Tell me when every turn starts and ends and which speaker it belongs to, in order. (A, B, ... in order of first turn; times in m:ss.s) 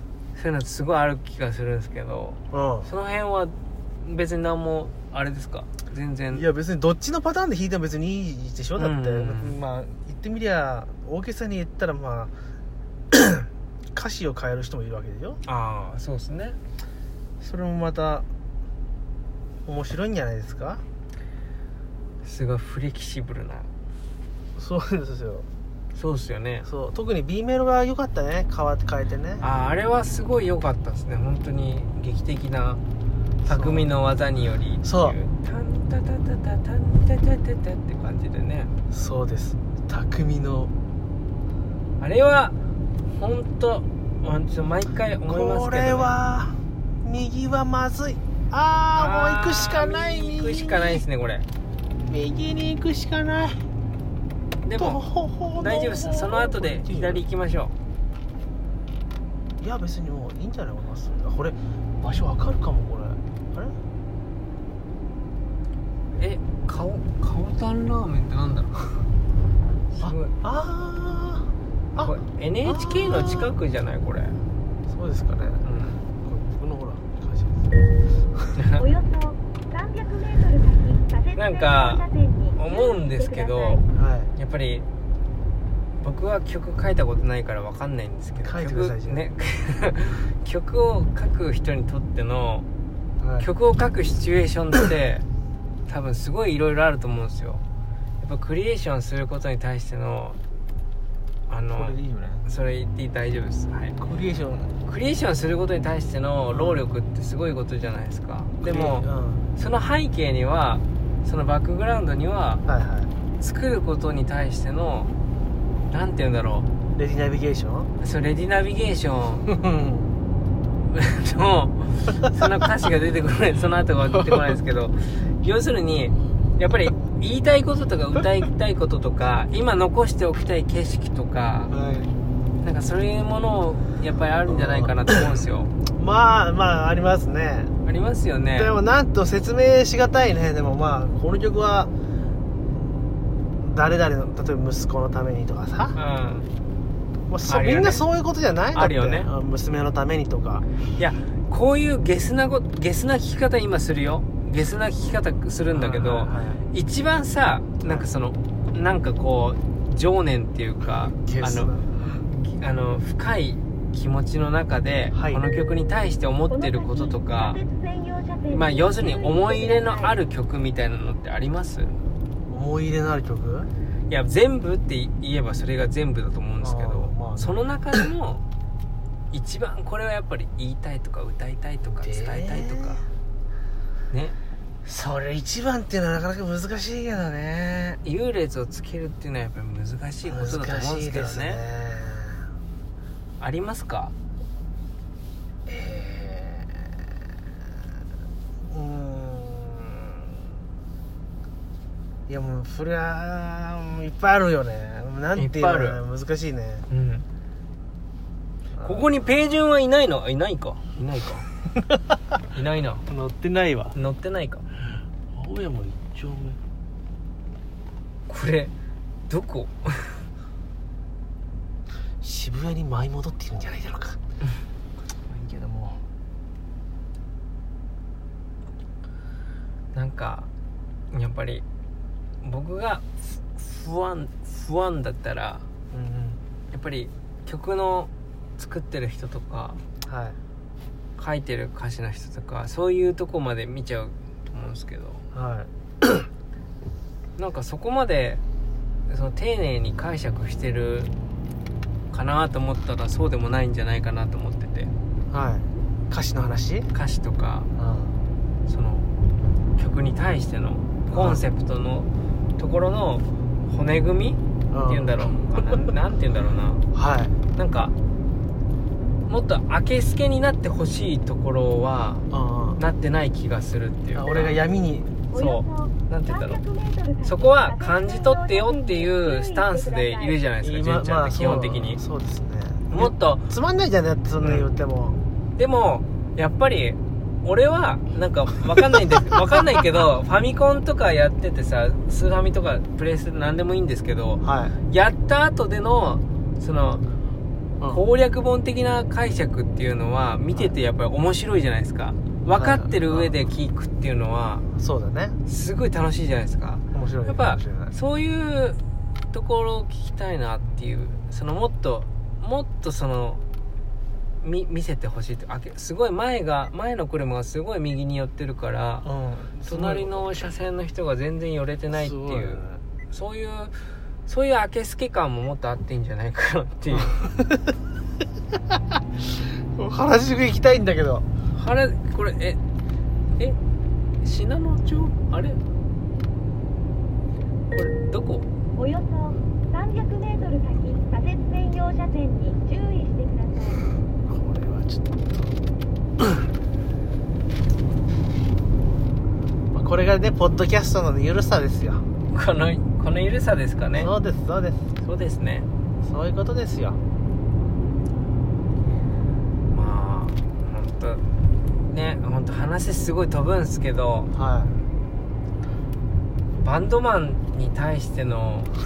0:00.4-0:06.5 A
0:02.5-0:02.9 B
0:06.3-0:12.3 B
0:08.8-0:09.6 A
0:13.1-0:15.4 B
0:15.5-0:16.6 A
0:17.4-0:18.3 B
0:19.7-0:20.8 B
0:22.2-0:23.7 A
0:24.6-0:25.5 B
0:26.0-0:26.7 A
0:26.6-0:29.4 B
0:29.4-0:32.8 A
0:33.5-0:33.9 B
0:33.5-0:38.7 A
0:34.8-0:35.2 B
0:38.9-0:40.7 B
0:42.0-0:42.6 A
0:43.1-0:46.1 A
0:45.3-0:51.0 B
0:49.0-0:51.5 A
0:52.1-0:53.6 B
0:54.6-0:55.0 A
0:54.8-0:57.2 B
0:55.6-0:57.7 A
0:59.6-1:03.8 B
1:06.2-1:08.8 A
1:09.9-1:10.3 A
1:10.0-1:12.1 B
1:12.0-1:14.4 A
1:12.6-1:13.5 B
1:14.9-1:15.6 B
1:15.6-1:16.0 A
1:16.2-1:17.7 B
1:18.6-1:18.8 A
1:18.8-1:23.8 C
1:21.4-1:22.0 A
1:22.6-1:23.8 A
1:24.0-1:24.3 B
1:24.4-1:24.9 A
1:26.0-1:32.7 A
1:28.4-1:29.2 B
1:33.2-1:33.5 B
1:33.4-1:35.3 A
1:35.9-1:37.6 A
1:38.2-1:40.4 A
1:41.5-1:44.0 A
1:41.8-1:42.4 B
1:44.0-1:44.7 B
1:44.9-1:52.6 A
1:46.5-1:46.8 B
1:48.6-1:49.4 B
1:52.7-1:53.1 B
1:53.4-1:55.1 A
1:55.9-1:56.7 A
1:57.0-1:57.9 B
1:58.0-1:59.5 A
1:59.5-2:00.1 B
2:00.9-2:11.7 A
2:11.7-2:12.1 B
2:12.6-2:15.7 A
2:14.5-2:15.2 B
2:16.0-2:17.7 B
2:17.8-2:18.7 A
2:18.6-2:21.9 B
2:22.7-2:23.0 B
2:23.6-2:26.0 B
2:26.0-2:26.5 A
2:27.3-2:30.6 B
2:27.5-2:28.0 A
2:28.7-2:29.3 A
2:31.0-2:47.6 A
2:35.7-2:36.6 B
2:37.8-2:38.1 B
2:40.9-2:42.0 B
2:45.1-2:45.4 B
2:46.5-2:50.1 C
2:48.5-2:52.0 A
2:52.5-2:53.7 B
2:54.1-2:58.4 A
2:56.6-2:57.5 B
2:59.3-3:03.0 A
3:02.0-3:03.0 B
3:04.1-3:04.4 A
3:04.8-3:08.0 B
3:08.0-3:11.6 A
3:10.3-3:12.4 B
3:13.4-3:14.1 A
3:15.7-3:17.0 B
3:18.7-3:20.1 B
3:22.3-3:26.9 B
3:25.4-3:26.0 A
3:26.9-3:27.3 A
3:28.7-3:29.0 B
3:28.8-3:31.5 A
3:32.5-3:33.0 A
3:33.1-3:34.0 B
3:33.9-3:34.6 A
3:35.3-3:36.6 B
3:38.3-3:38.7 A
3:39.3-3:40.2 A
3:42.2-3:44.2 B
3:45.3-3:46.0 B
3:49.9-3:50.5 A
3:51.1-3:51.6 A
3:52.4-3:55.6 A
3:55.9-3:56.4 B
3:56.7-3:59.8 A
4:00.0-4:00.4 B
4:01.2-4:05.2 A
4:05.3-4:06.3 B
4:07.4-4:08.4 A
4:09.1-4:11.1 A
4:12.1-4:14.9 A
4:15.3-4:16.9 B
4:16.9-4:17.7 A
4:17.8-4:18.2 B
4:18.7-4:19.1 A
4:19.8-4:26.8 A
4:21.1-4:21.4 B
4:24.7-4:25.1 B
4:26.9-4:27.3 B
4:27.6-4:27.9 A
4:29.3-4:32.3 A
4:32.3-4:32.8 B
4:32.8-4:34.6 A
4:34.2-4:35.1 B
4:35.3-4:40.4 C
4:35.3-4:36.6 A
4:37.2-4:42.0 A
4:40.6-4:45.2 B
4:42.9-4:43.5 A
4:44.4-4:44.7 A
4:45.6-4:57.0 A
4:54.4-4:54.7 B
4:57.9-5:04.7 A
5:02.5-5:03.4 B
5:04.8-5:05.4 B
5:05.5-5:08.8 A
5:06.9-5:07.9 B
5:09.3-5:13.4 A
5:14.4-5:19.1 A
5:19.0-5:20.4 B
5:19.6-5:27.2 A
5:21.9-5:22.8 B
5:29.7-5:31.3 B
5:31.5-5:32.6 A
5:34.2-5:35.6 A
5:37.7-5:38.5 A
5:38.8-5:43.9 C
5:44.3-5:45.6 B
5:49.7-5:52.1 B
5:52.3-5:54.1 A
5:54.0-5:54.8 B
5:55.0-5:55.7 A
5:56.0-5:57.0 B
5:59.7-6:01.2 A
6:01.9-6:04.3 A
6:04.3-6:04.7 B
6:06.6-6:08.7 A